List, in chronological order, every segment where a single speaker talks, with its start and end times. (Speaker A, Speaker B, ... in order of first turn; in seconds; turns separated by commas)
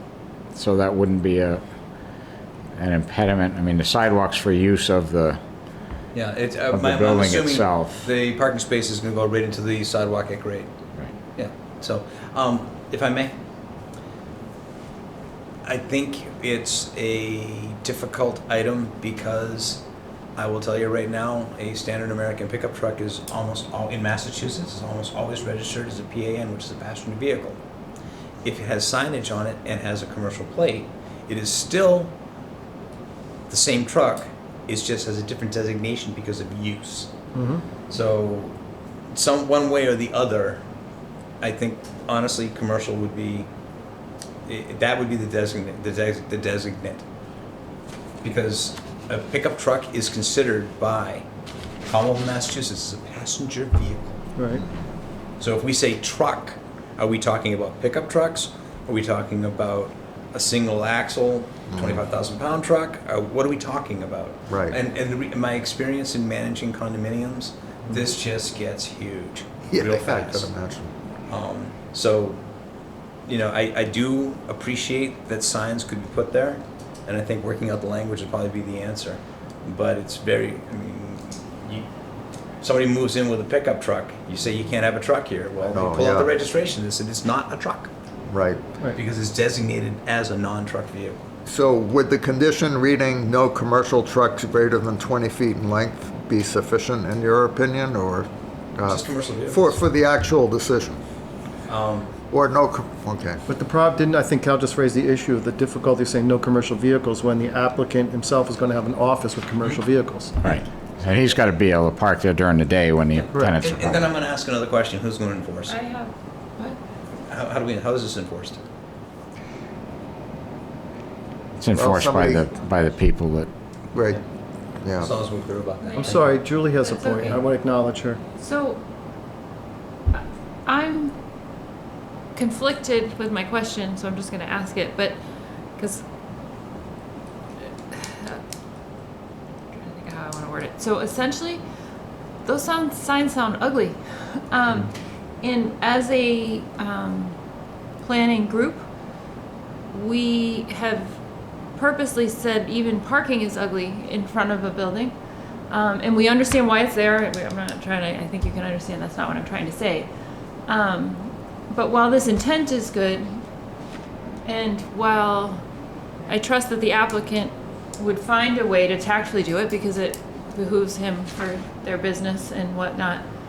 Speaker A: 0.6-1.6, Speaker A: 2.8-5.4, Speaker B: 6.1-10.7, Speaker A: 6.7-8.0, Speaker B: 11.3-13.3, Speaker B: 15.6-19.8, Speaker B: 20.4-27.6, Speaker B: 28.4-32.1, Speaker B: 33.5-37.1, Speaker C: 37.3-37.6, Speaker B: 37.9-38.5, Speaker B: 39.1-40.6, Speaker B: 41.4-43.5, Speaker B: 44.5-47.0, Speaker B: 48.2-51.2, Speaker B: 51.9-54.2, Speaker C: 54.4-54.6, Speaker D: 54.6-54.8, Speaker B: 55.4-70.5, Speaker D: 61.7-62.0, Speaker D: 64.5-64.8, Speaker D: 69.7-70.9, Speaker B: 71.3-72.4, Speaker B: 73.3-81.9, Speaker B: 82.6-87.9, Speaker D: 85.7-86.3, Speaker D: 88.3-88.6, Speaker B: 88.9-91.2, Speaker D: 91.5-101.0, Speaker B: 98.8-99.8, Speaker B: 101.7-102.1, Speaker D: 102.3-103.4, Speaker C: 103.5-110.4, Speaker A: 110.4-114.1, Speaker B: 113.2-115.7, Speaker E: 115.7-116.8, Speaker B: 117.3-118.6, Speaker A: 121.6-123.5, Speaker D: 121.7-122.5, Speaker D: 123.9-124.2, Speaker D: 124.8-125.1, Speaker B: 125.0-126.3, Speaker E: 125.8-126.2, Speaker C: 126.0-128.2, Speaker E: 126.7-127.4, Speaker E: 128.3-128.8, Speaker E: 130.1-131.1, Speaker E: 132.3-135.2, Speaker E: 135.8-136.0, Speaker E: 137.9-138.4, Speaker E: 139.8-141.6, Speaker E: 142.4-147.3, Speaker E: 148.0-148.8, Speaker E: 149.9-151.2, Speaker E: 151.8-155.1, Speaker E: 155.7-160.1, Speaker E: 160.7-163.3, Speaker E: 164.4-165.6, Speaker E: 166.3-173.2